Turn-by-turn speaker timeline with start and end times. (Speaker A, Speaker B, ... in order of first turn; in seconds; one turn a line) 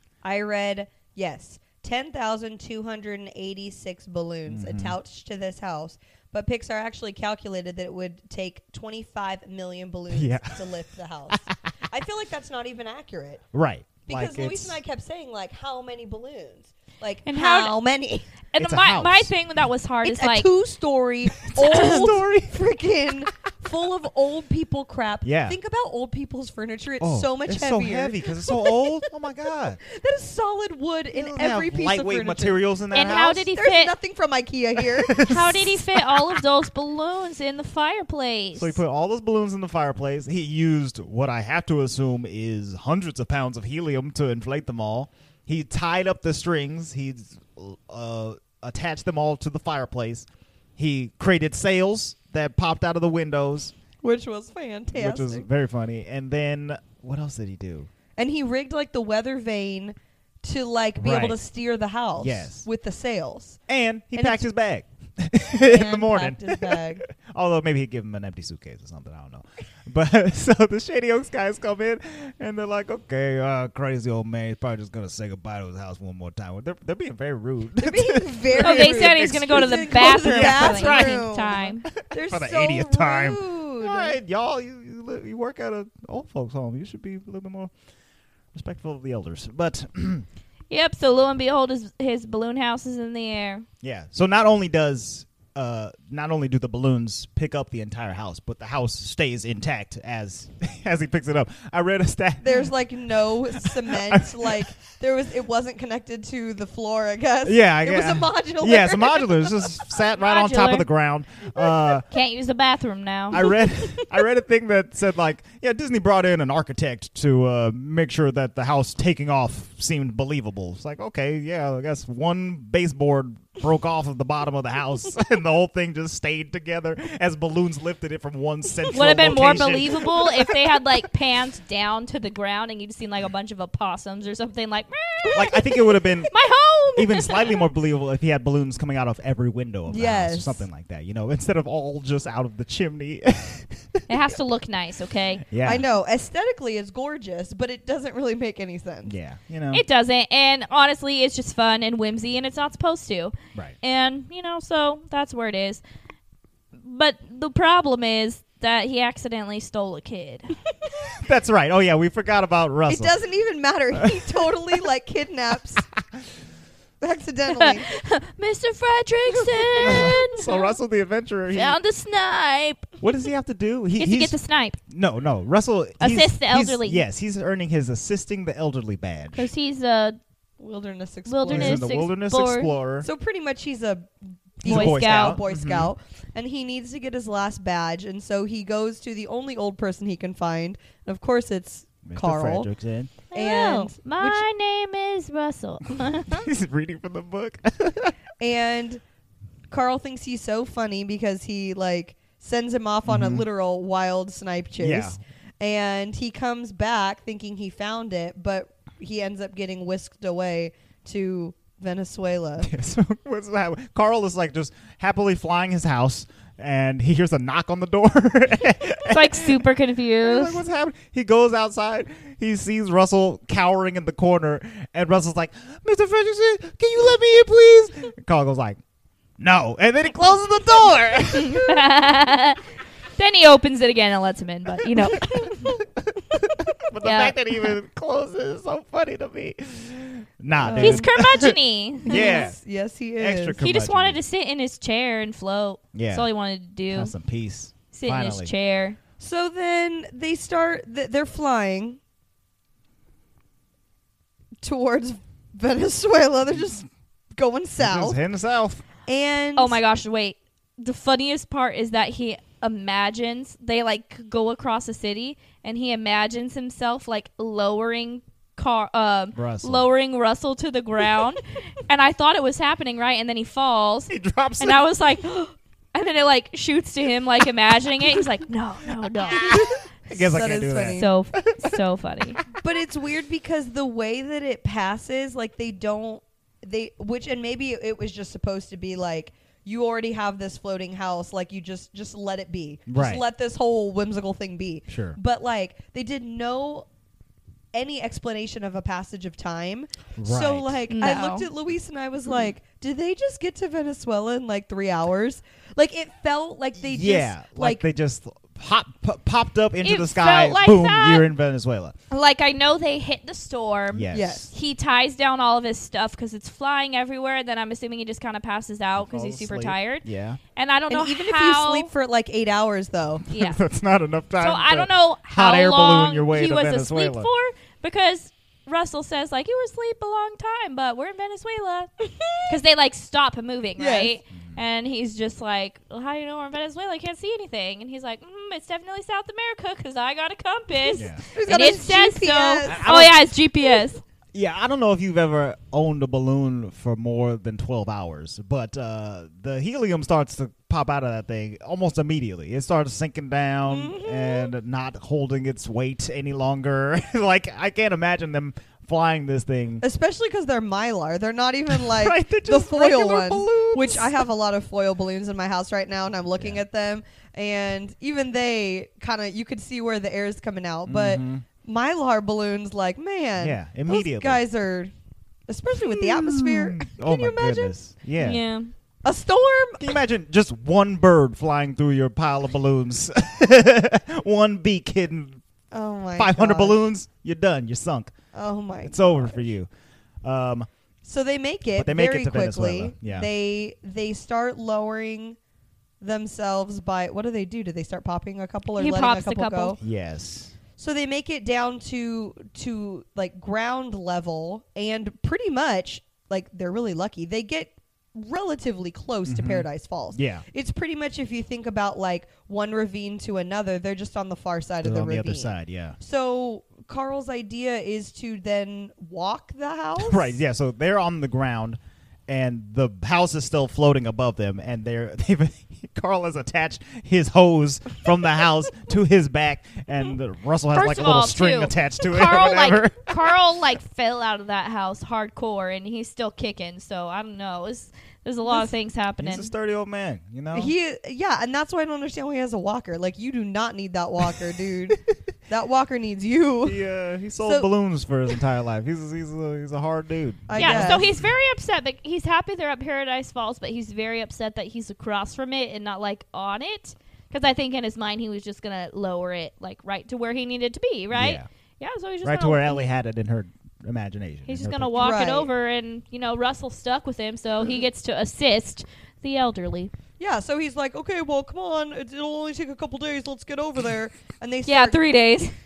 Speaker A: 0.2-13.4
Speaker B: 4.5-5.0
Speaker B: 10.1-11.6
Speaker B: 13.5-14.8
Speaker A: 14.1-18.3
Speaker C: 17.3-17.8
Speaker C: 18.5-20.5
Speaker B: 18.6-19.3
Speaker A: 20.0-29.0
Speaker B: 21.3-22.7
Speaker C: 21.6-22.2
Speaker B: 25.2-25.6
Speaker B: 27.0-29.8
Speaker A: 29.7-32.6
Speaker B: 31.1-33.5
Speaker C: 32.9-33.9
Speaker A: 33.6-35.6
Speaker B: 35.1-35.9
Speaker C: 35.1-38.8
Speaker B: 38.5-50.3
Speaker B: 50.8-53.7
Speaker A: 54.0-55.4
Speaker B: 54.9-57.9
Speaker A: 58.2-63.6
Speaker B: 61.0-61.4
Speaker B: 62.2-62.7
Speaker B: 63.7-81.3
Speaker A: 64.1-64.5
Speaker A: 65.7-67.0
Speaker A: 77.8-84.2
Speaker C: 78.6-81.9
Speaker B: 82.1-87.7
Speaker B: 88.5-90.3
Speaker C: 90.7-93.7
Speaker B: 93.8-102.7
Speaker A: 102.4-109.8
Speaker B: 103.6-104.7
Speaker B: 107.5-112.1
Speaker C: 110.2-110.9
Speaker C: 112.1-113.5
Speaker B: 113.3-130.6
Speaker A: 113.3-114.1
Speaker C: 128.9-137.6
Speaker A: 128.9-129.8
Speaker B: 135.3-136.3
Speaker B: 137.0-144.1
Speaker A: 139.9-140.7
Speaker C: 144.1-145.5
Speaker B: 145.5-145.9
Speaker A: 145.6-149.1
Speaker B: 149.1-149.8
Speaker C: 149.7-155.8
Speaker C: 156.8-160.6
Speaker B: 161.2-163.1
Speaker A: 162.9-165.8
Speaker B: 164.0-164.7
Speaker A: 167.0-167.9
Speaker C: 167.5-170.8
Speaker A: 169.6-170.2
Speaker B: 169.8-171.8
Speaker C: 171.5-173.0
Speaker B: 173.0-174.4
Speaker C: 174.0-174.8
Speaker B: 174.9-179.5
Speaker C: 176.0-177.0
Speaker C: 179.3-180.2
Speaker A: 180.6-181.9
Speaker C: 181.3-182.7
Speaker B: 181.5-183.1
Speaker A: 183.0-192.7
Speaker B: 184.6-185.9
Speaker C: 184.7-185.4
Speaker B: 192.1-193.2
Speaker C: 193.3-196.5
Speaker A: 193.3-194.4
Speaker B: 196.3-198.2
Speaker A: 198.4-199.0
Speaker A: 199.7-212.7
Speaker B: 203.1-203.5
Speaker B: 204.8-205.2
Speaker B: 212.6-219.7
Speaker C: 219.1-220.6
Speaker B: 220.2-228.8
Speaker B: 229.4-231.9
Speaker C: 231.3-232.6
Speaker C: 233.2-235.7
Speaker B: 234.9-242.6
Speaker C: 237.0-237.7
Speaker A: 240.6-241.1
Speaker C: 240.8-242.5
Speaker A: 242.1-243.6
Speaker B: 243.2-244.2
Speaker C: 243.6-247.1
Speaker B: 245.9-246.3
Speaker B: 246.9-248.5
Speaker C: 247.9-249.0
Speaker A: 249.2-252.0
Speaker A: 254.6-258.2
Speaker B: 257.8-258.8
Speaker A: 259.1-259.8
Speaker C: 259.6-279.8
Speaker B: 269.4-269.9
Speaker B: 274.1-274.8
Speaker B: 279.3-281.8
Speaker A: 280.1-281.1
Speaker C: 280.8-282.4
Speaker A: 282.6-296.9
Speaker B: 292.9-293.2
Speaker B: 294.9-295.2
Speaker A: 297.7-307.8
Speaker B: 300.2-300.8
Speaker C: 300.9-301.5
Speaker B: 306.8-311.9
Speaker C: 309.8-311.3
Speaker C: 312.1-320.0
Speaker B: 313.9-314.5
Speaker A: 314.1-314.5
Speaker B: 319.0-320.4
Speaker C: 320.6-321.9
Speaker A: 320.9-323.2
Speaker B: 323.3-327.3
Speaker C: 323.3-323.6
Speaker C: 324.4-331.9
Speaker A: 332.0-332.6
Speaker C: 332.5-344.0
Speaker A: 333.8-334.1
Speaker A: 340.8-343.8
Speaker B: 340.9-341.2
Speaker B: 342.7-343.1
Speaker B: 344.3-359.8
Speaker A: 353.7-354.5
Speaker A: 359.8-374.9
Speaker B: 361.7-364.2
Speaker B: 366.4-366.6
Speaker B: 370.9-371.4
Speaker B: 373.4-374.4
Speaker A: 375.5-377.7
Speaker B: 375.8-378.4
Speaker C: 378.2-378.7
Speaker A: 379.0-379.9
Speaker B: 379.8-385.4
Speaker A: 385.7-386.8
Speaker B: 386.2-388.1
Speaker A: 388.3-389.4
Speaker B: 388.8-389.7
Speaker B: 390.2-390.7
Speaker A: 391.0-395.4
Speaker B: 391.7-393.3
Speaker A: 396.0-399.8
Speaker C: 398.8-399.8
Speaker B: 399.8-400.5
Speaker A: 400.8-420.4
Speaker B: 409.3-410.4
Speaker B: 414.8-416.0
Speaker B: 420.0-433.2
Speaker C: 430.7-439.5
Speaker B: 439.2-440.7
Speaker A: 440.5-446.8
Speaker B: 446.6-451.1
Speaker A: 447.4-447.7
Speaker A: 450.5-451.1
Speaker C: 450.6-462.9
Speaker B: 461.1-461.5
Speaker B: 462.2-465.0
Speaker C: 464.5-469.9
Speaker A: 464.9-465.5
Speaker A: 470.2-475.0
Speaker C: 474.7-475.5